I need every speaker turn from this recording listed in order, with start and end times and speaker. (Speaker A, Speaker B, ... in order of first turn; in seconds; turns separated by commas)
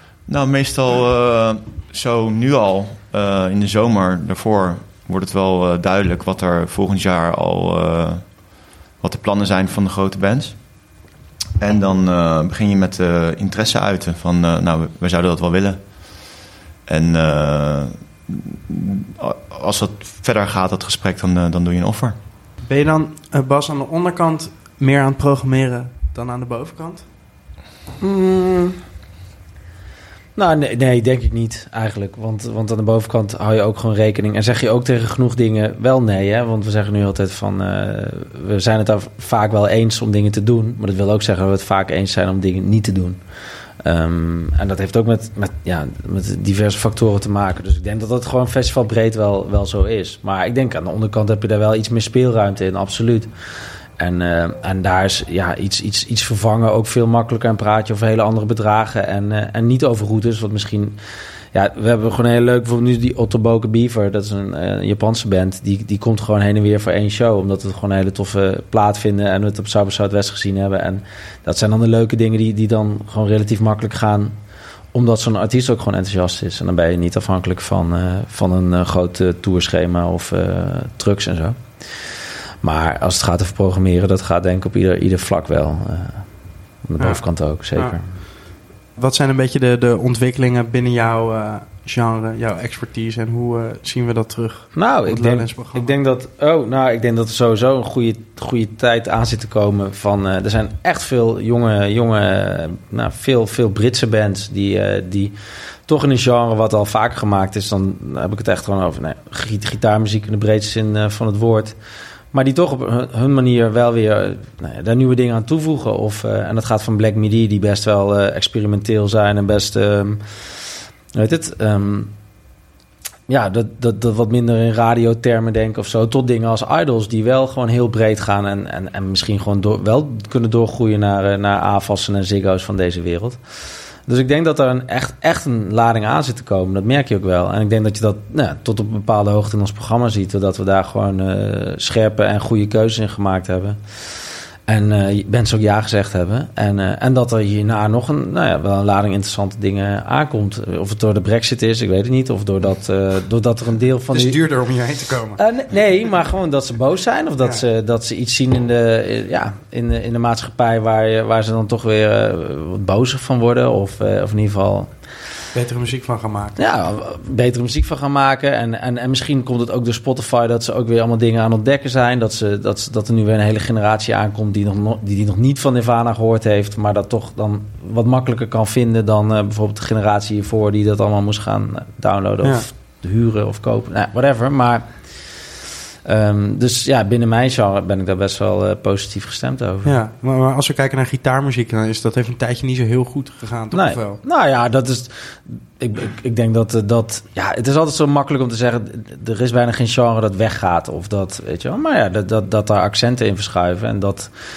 Speaker A: 0.3-10.9, Speaker A: 11.6-22.2, Speaker B: 22.6-27.1, Speaker C: 28.0-28.8, Speaker C: 30.4-43.2, Speaker C: 43.8-53.3, Speaker C: 54.0-61.0, Speaker C: 61.5-74.3, Speaker C: 74.9-86.3, Speaker C: 86.8-88.2, Speaker B: 87.8-95.9, Speaker C: 94.8-105.3, Speaker C: 105.9-111.8, Speaker C: 112.3-120.2, Speaker C: 121.1-122.1, Speaker C: 123.3-133.4, Speaker C: 134.1-154.4, Speaker B: 154.1-155.4, Speaker C: 155.4-164.9, Speaker B: 165.5-166.6, Speaker C: 166.6-185.1, Speaker C: 186.1-190.0, Speaker B: 189.8-194.2, Speaker C: 193.7-204.3